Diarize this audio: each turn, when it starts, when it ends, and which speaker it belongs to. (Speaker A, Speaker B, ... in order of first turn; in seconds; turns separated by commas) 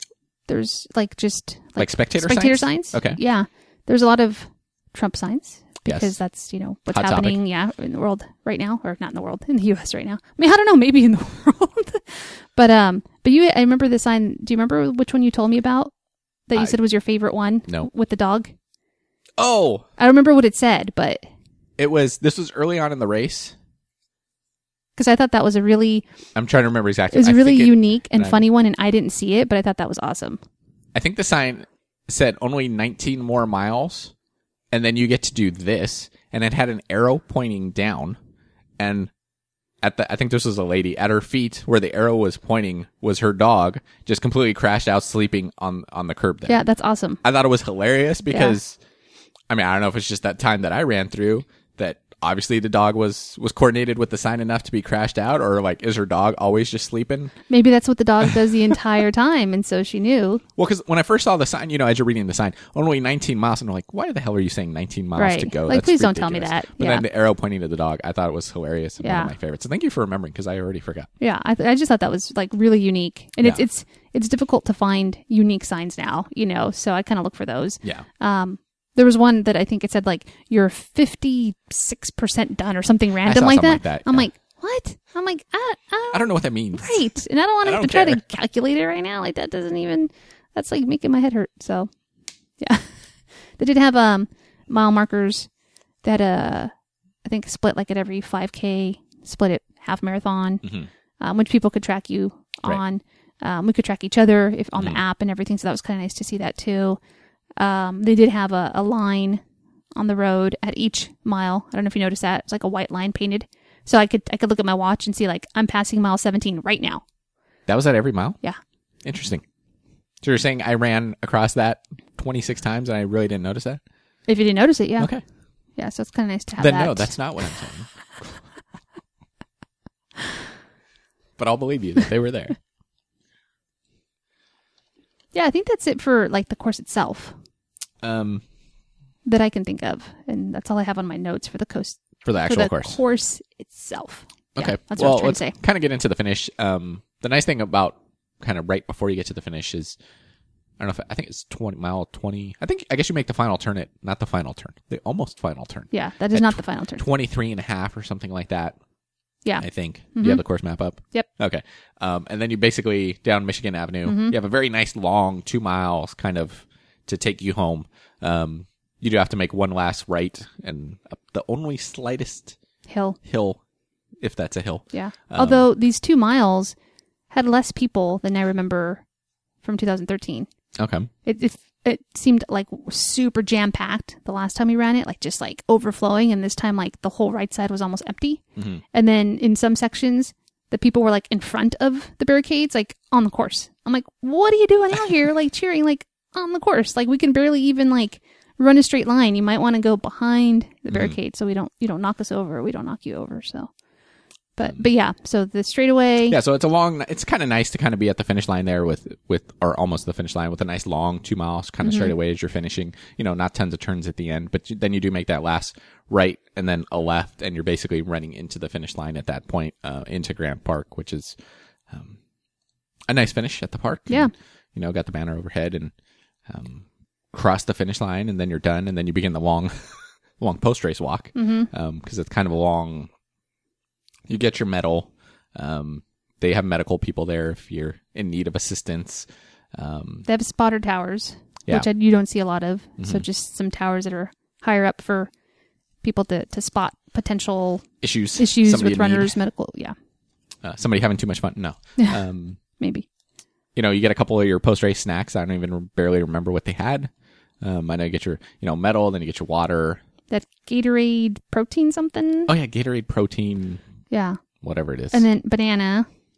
Speaker A: 0.5-15.9, Speaker B: 1.8-3.2, Speaker B: 5.8-6.1, Speaker B: 6.9-7.4, Speaker A: 16.5-18.5, Speaker B: 19.4-19.9, Speaker A: 20.0-21.2, Speaker B: 21.8-23.5, Speaker A: 24.9-26.0, Speaker B: 26.3-28.4, Speaker A: 27.1-30.4, Speaker B: 30.9-34.1, Speaker B: 34.7-38.2, Speaker B: 38.8-39.1, Speaker B: 39.8-46.6, Speaker A: 46.5-47.2, Speaker B: 47.2-48.8, Speaker A: 48.3-48.6, Speaker B: 49.5-57.3, Speaker A: 57.5-60.4, Speaker B: 58.2-58.5, Speaker B: 60.6-71.1, Speaker A: 65.2-67.0, Speaker A: 69.0-69.3, Speaker A: 71.2-91.9, Speaker B: 83.2-84.3, Speaker B: 86.1-87.0, Speaker B: 87.6-88.2, Speaker A: 92.6-95.5, Speaker A: 96.0-96.7, Speaker A: 97.2-100.6, Speaker B: 100.6-100.9, Speaker A: 101.2-107.0, Speaker A: 107.6-109.4, Speaker A: 110.0-117.0, Speaker B: 117.7-118.4, Speaker B: 119.0-119.4, Speaker B: 120.2-123.8, Speaker A: 124.3-125.1, Speaker A: 125.8-127.2, Speaker B: 126.6-127.9, Speaker B: 131.4-132.6, Speaker A: 135.3-137.3, Speaker B: 138.0-138.4, Speaker A: 139.2-145.6, Speaker B: 142.2-143.0, Speaker B: 144.6-150.0, Speaker B: 150.8-158.8, Speaker A: 155.9-157.1, Speaker A: 159.4-160.4, Speaker B: 159.6-172.6, Speaker A: 164.0-164.3, Speaker A: 172.9-173.2, Speaker B: 173.2-173.6, Speaker B: 174.2-175.7, Speaker A: 174.9-176.8, Speaker A: 177.3-179.0, Speaker A: 179.6-180.5, Speaker B: 180.8-181.1, Speaker A: 181.2-203.7, Speaker B: 188.6-188.8, Speaker B: 200.9-201.2, Speaker A: 204.6-206.4, Speaker B: 206.3-221.4, Speaker A: 211.8-212.1, Speaker B: 221.9-222.2, Speaker B: 223.1-225.9, Speaker B: 226.5-233.1, Speaker A: 231.3-231.7, Speaker B: 234.3-240.3, Speaker A: 240.3-245.3, Speaker B: 243.0-243.2, Speaker A: 246.0-249.9, Speaker B: 248.0-249.3, Speaker B: 250.6-252.6, Speaker A: 252.8-253.1, Speaker B: 253.7-260.0, Speaker A: 260.3-262.5, Speaker B: 262.5-263.8, Speaker A: 264.1-264.4, Speaker B: 264.6-265.2, Speaker A: 265.1-266.1